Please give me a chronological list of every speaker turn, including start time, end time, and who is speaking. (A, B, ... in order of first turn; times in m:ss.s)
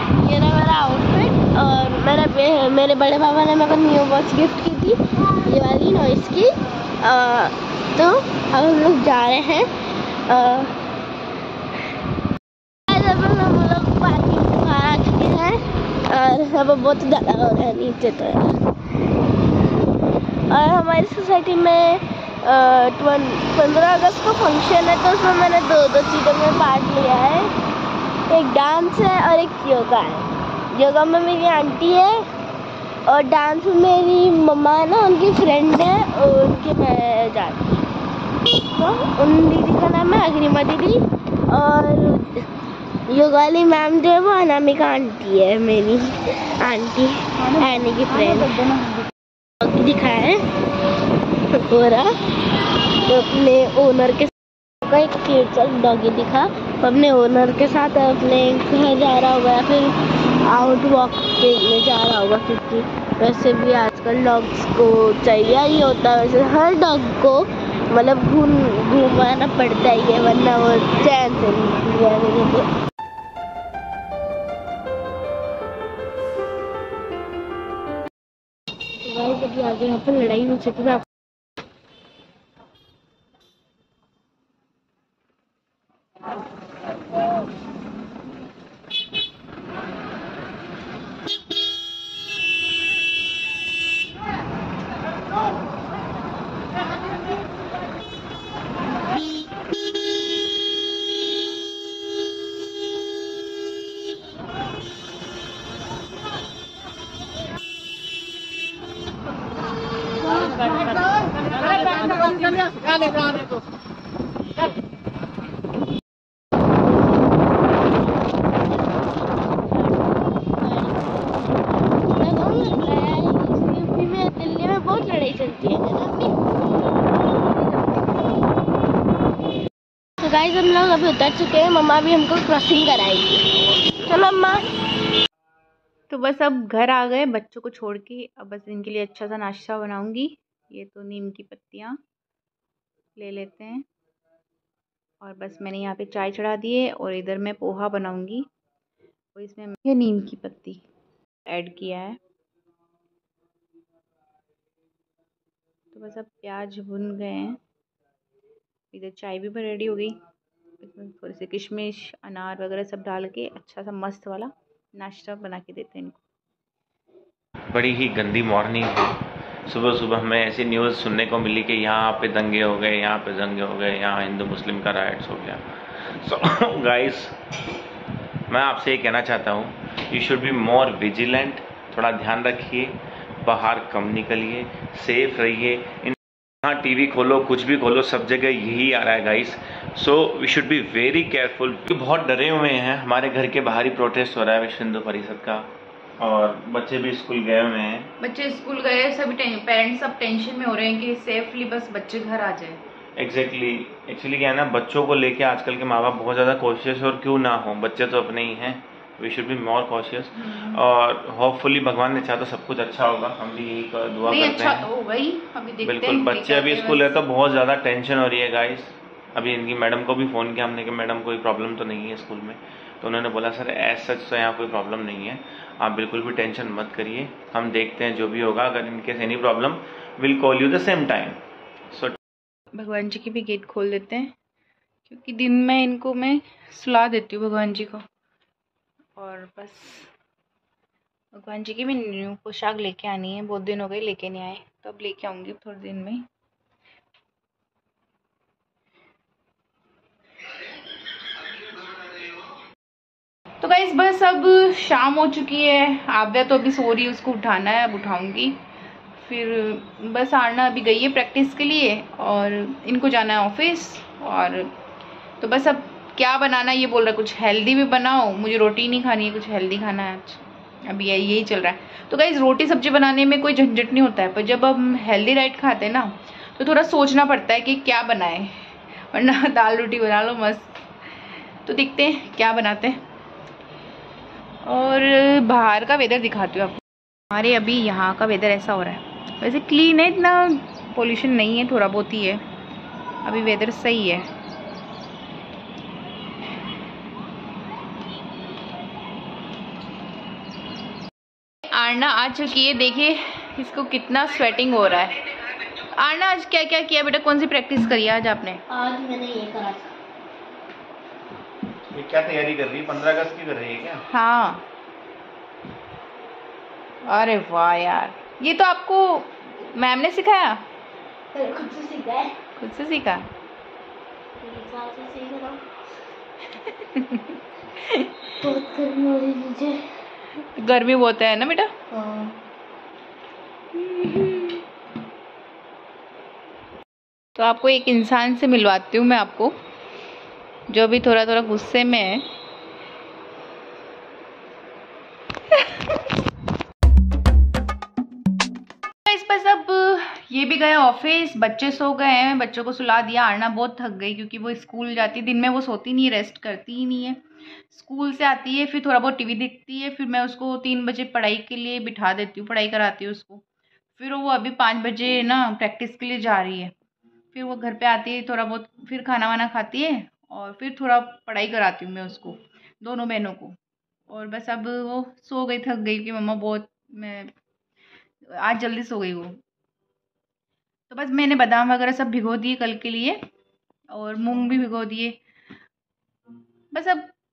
0:00.2-0:06.5 A
0:07.0-0:09.7 A
0:10.3-0:10.7 A
0:12.9-0:18.5 A
0:20.5-0:27.5 A
0:28.3-0:32.2 A
0:33.1-0:37.8 A
0:38.8-0:42.4 A
0:43.1-0:48.5 A
0:47.4-0:49.1 B
0:49.6-0:50.4 A
0:51.7-0:52.1 A
0:53.0-0:54.3 A
0:54.8-1:12.7 A
1:19.0-1:21.0 A
1:58.8-2:06.4 A
2:07.1-2:08.2 A
2:10.2-2:14.7 A
2:16.1-2:22.0 B
2:23.2-2:23.8 B
2:25.2-2:28.5 B
2:29.3-2:30.8 B
2:31.4-2:32.2 B
2:35.9-2:37.6 B
2:38.9-2:40.2 B
2:40.8-2:46.2 B
2:47.7-2:55.6 C
2:56.2-2:57.3 C
2:58.5-3:15.7 C
3:16.2-3:18.1 C
3:18.2-3:22.8 B
3:23.2-3:34.9 C
3:30.4-3:30.8 B
3:34.2-3:37.2 B
3:35.8-3:51.4 C
3:51.9-3:52.2 C
3:52.7-3:54.3 B
3:55.0-3:58.0 B
3:59.2-4:00.1 B
4:01.3-4:06.2 B
4:13.6-4:18.6 B
4:19.2-4:24.7 B
4:25.4-4:40.8 B
4:41.6-4:43.0 B
4:44.6-4:52.4 B
4:53.2-4:54.3 B
5:01.7-5:08.6 B
5:08.7-5:09.9 A
5:11.9-5:14.0 C
5:14.1-5:14.6 B
5:17.0-5:20.6 B
5:21.3-5:22.3 A
5:22.6-5:23.3 B
5:24.4-5:25.6 A
5:26.6-5:28.1 B
5:28.4-5:29.8 A
5:30.5-5:31.7 B
5:31.9-5:32.4 A
5:37.4-5:39.5 B
5:40.7-5:42.2 B
5:49.0-6:03.4 B
6:04.0-6:06.7 B
6:07.3-6:13.6 B
6:14.1-6:17.3 B
6:18.3-6:19.4 B
6:20.9-6:23.2 B
6:23.9-6:25.2 B
6:26.7-6:27.1 B